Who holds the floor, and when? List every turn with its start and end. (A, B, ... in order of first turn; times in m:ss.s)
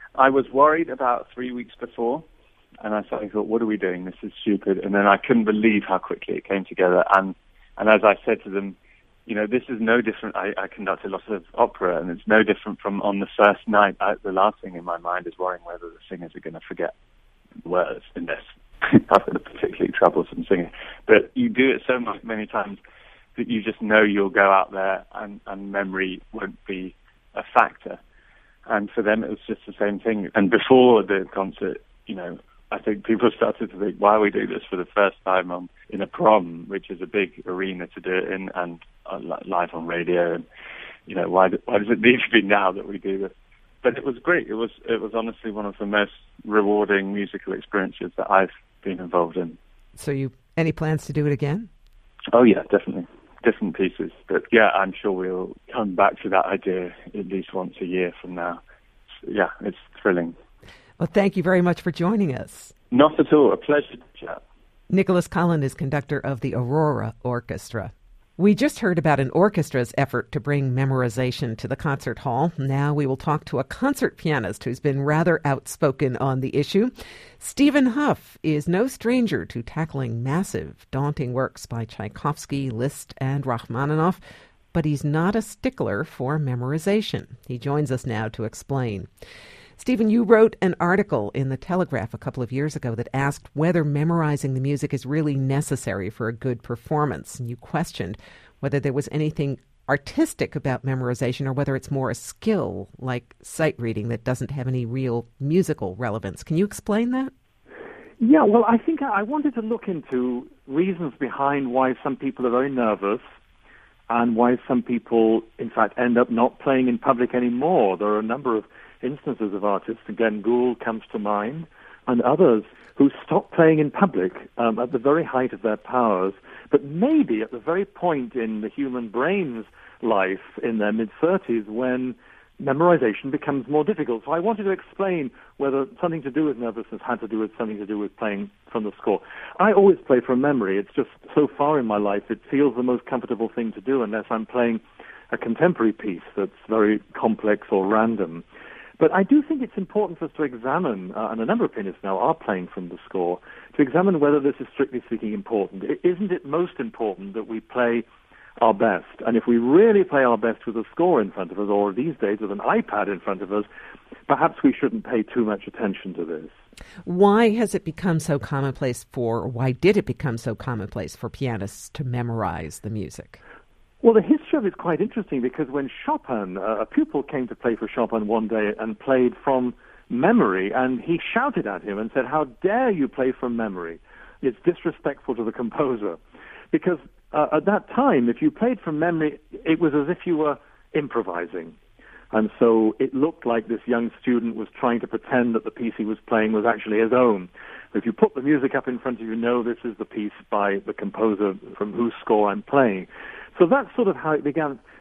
0:00.1-0:02.2 A
0:02.8-0:08.8 A
0:09.3-0:16.9 A
0:17.6-0:22.8 A
0:23.4-0:28.0 A
0:28.7-0:40.4 A
0:41.1-0:43.3 A
0:43.8-0:49.6 A
0:50.0-0:51.7 B
0:52.3-0:58.6 A
0:59.2-1:00.3 A
1:01.0-1:02.7 B
1:02.9-1:04.4 A
1:04.9-1:24.2 B
1:24.7-1:29.1 B
1:29.8-1:47.3 B
1:48.2-1:53.2 C
1:54.1-2:28.4 C
2:29.0-2:38.0 C
2:38.6-2:43.7 C
2:44.3-2:46.5 C
2:47.0-2:53.4 B
2:54.0-3:06.2 C
3:06.7-3:11.7 C
3:12.3-3:24.8 C